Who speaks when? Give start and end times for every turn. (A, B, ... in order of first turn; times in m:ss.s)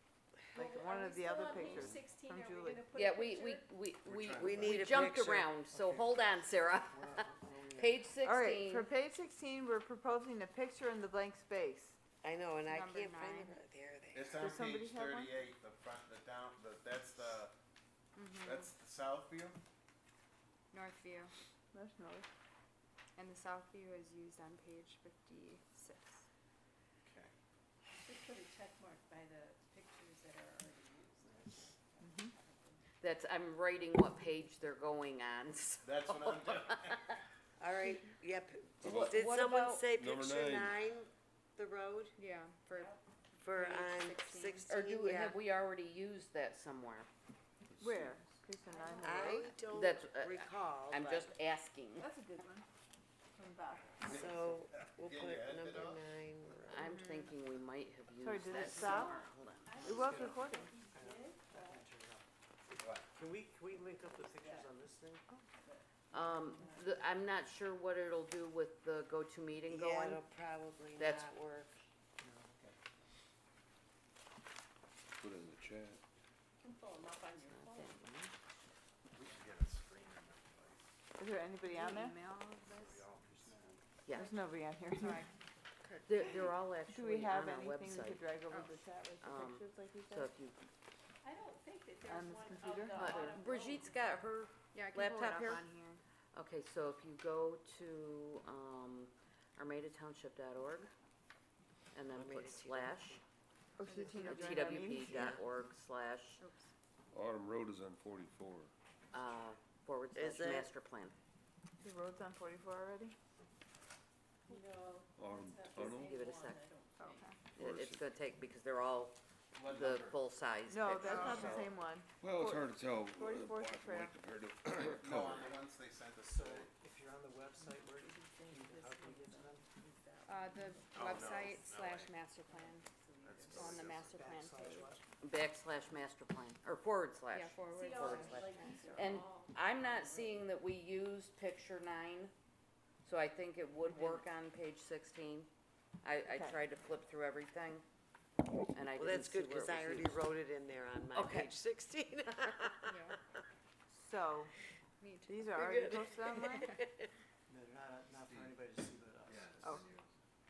0:00.5-0:02.8 A
0:00.5-0:03.7 B
0:02.9-0:08.9 C
0:04.0-0:05.0 D
0:04.4-0:05.6 E
0:05.7-0:08.2 F
0:08.2-0:12.0 A
0:12.2-0:14.4 E
0:12.6-0:13.6 G
0:14.1-0:17.5 D
0:14.4-0:15.4 A
0:18.2-0:18.7 G
0:18.4-0:19.6 D
0:20.7-0:21.3 G
0:21.7-0:22.3 A
0:23.2-0:26.2 G
0:27.0-0:27.3 D
0:28.0-0:32.8 B
0:32.0-0:32.3 A
0:33.0-0:37.2 C
0:35.8-0:37.0 D
0:37.6-0:42.2 E
0:38.8-0:39.2 H
0:38.8-0:39.9 C
0:39.9-0:40.8 H
0:42.2-0:42.9 G
0:42.7-0:43.0 B
0:43.4-0:45.4 E
0:43.5-0:44.6 G
0:44.6-0:47.1 C
0:47.7-0:48.1 H
0:47.8-0:49.6 A
0:48.7-0:49.4 B
0:49.0-0:51.3 E
0:49.7-0:52.1 C
0:52.0-0:52.6 A
0:53.3-0:54.3 B
0:54.0-0:56.1 D
0:54.0-0:56.9 E
0:56.7-1:00.0 C
0:58.2-0:59.2 A
0:58.5-1:01.9 B
0:59.8-1:00.7 A
0:59.8-1:00.4 F
1:00.9-1:02.0 F
1:02.8-1:03.1 D
1:03.1-1:05.2 F
1:04.0-1:04.7 B
1:05.4-1:07.0 B
1:06.1-1:10.2 C
1:09.7-1:11.7 E
1:10.9-1:11.3 C
1:12.2-1:12.8 F
1:15.2-1:16.0 H
1:16.6-1:18.0 B
1:17.5-1:18.3 C
1:19.1-1:20.8 D
1:21.2-1:22.2 A
1:21.6-1:23.0 G
1:22.6-1:23.8 D
1:24.0-1:24.3 C
1:24.1-1:25.3 A
1:25.0-1:25.2 G
1:25.8-1:26.1 G
1:26.0-1:28.3 C
1:26.9-1:30.3 A
1:28.5-1:28.8 G
1:29.2-1:30.6 C
1:31.2-1:34.2 B
1:32.1-1:33.2 A
1:32.9-1:35.7 C
1:34.7-1:36.0 G
1:36.3-1:40.9 C
1:41.9-1:43.2 C
1:42.1-1:43.2 E
1:43.8-1:45.4 A
1:43.8-1:45.4 G
1:44.2-1:46.4 C
1:46.4-1:46.7 G
1:47.1-1:48.7 H
1:49.1-1:51.1 C
1:50.1-1:50.7 E
1:51.8-1:53.2 A
1:54.5-1:57.3 B
1:55.2-1:56.1 H
1:55.9-1:56.6 C
1:57.0-1:57.3 A
1:57.5-1:58.0 H
1:57.6-2:01.7 C
1:59.6-2:00.2 D
2:00.7-2:04.2 A
2:01.0-2:01.6 G
2:02.2-2:05.6 H
2:05.0-2:06.7 D
2:06.3-2:09.7 F
2:07.5-2:11.5 B
2:10.2-2:12.9 G
2:10.9-2:12.1 D
2:12.4-2:13.8 B
2:13.2-2:14.2 D
2:13.5-2:15.0 G
2:14.2-2:15.0 F
2:15.2-2:22.3 C
2:17.3-2:18.9 G
2:17.7-2:20.4 B
2:23.0-2:25.5 C
2:26.0-2:27.8 C
2:26.3-2:26.6 A
2:28.7-2:30.3 C
2:29.0-2:33.0 E
2:31.1-2:31.5 C
2:32.9-2:33.2 G
2:33.9-2:34.5 A
2:35.0-2:35.5 G
2:35.3-2:36.7 A
2:35.5-2:37.1 E
2:37.5-2:39.8 F
2:38.2-2:38.5 D
2:39.2-2:40.1 D